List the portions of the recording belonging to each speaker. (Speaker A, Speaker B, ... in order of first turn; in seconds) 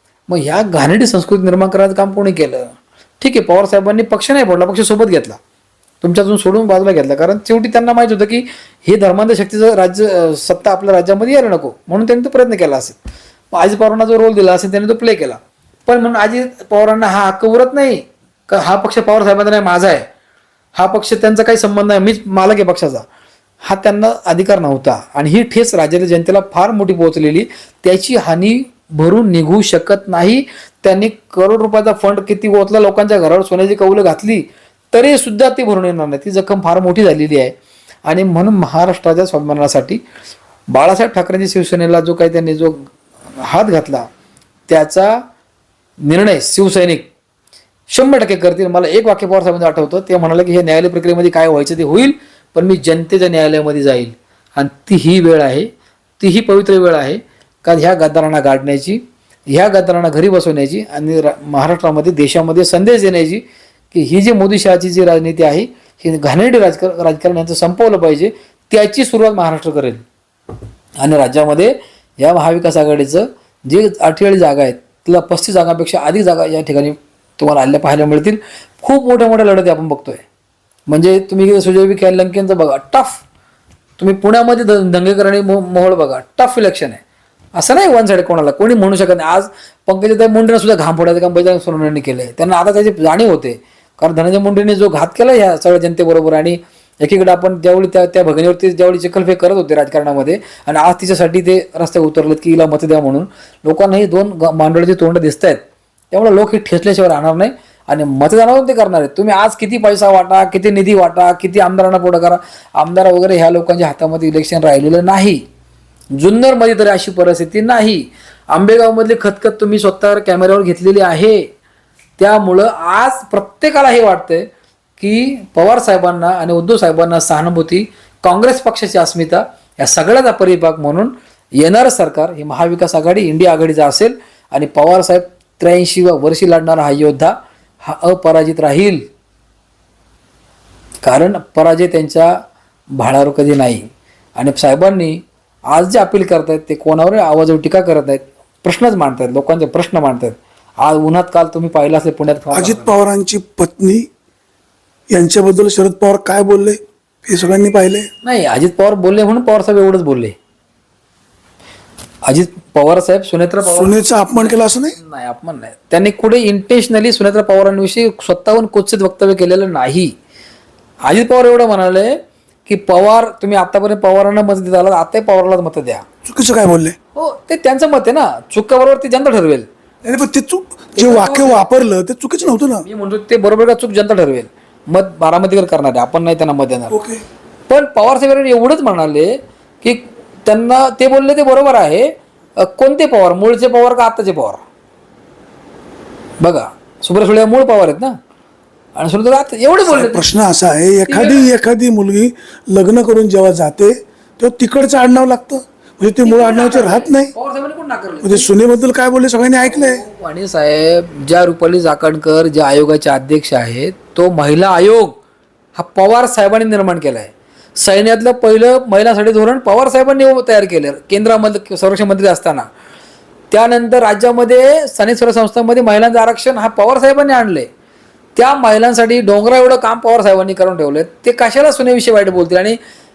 Speaker A: 0.3-5.4, 6.0-13.0, 13.5-20.1, 20.8-23.0, 23.6-37.5, 38.0-40.0, 40.7-42.8, 43.4-44.1, 44.7-45.2, 46.0-47.1, 47.9-70.0, 71.0-80.2, 80.9-83.2, 84.0-87.0, 87.5-105.6, 106.1-115.4, 116.2-121.5, 122.2-124.5, 125.0-139.1, 141.0-142.4, 142.9-152.9, 158.2-160.3, 162.2-170.1, 171.1-176.0, 177.1-179.7, 180.9-181.6, 182.8-187.0, 187.7-194.6, 196.4-198.2, 198.9-200.2, 201.1-201.5, 206.2-208.5, 209.7-215.2, 215.8-222.7, 223.5-227.7, 228.3-232.8
Speaker B: 152.5-154.1, 155.1-158.1, 163.6-164.9, 176.2-176.9, 180.0-182.8, 186.9-187.2, 199.8-207.3, 208.2-210.0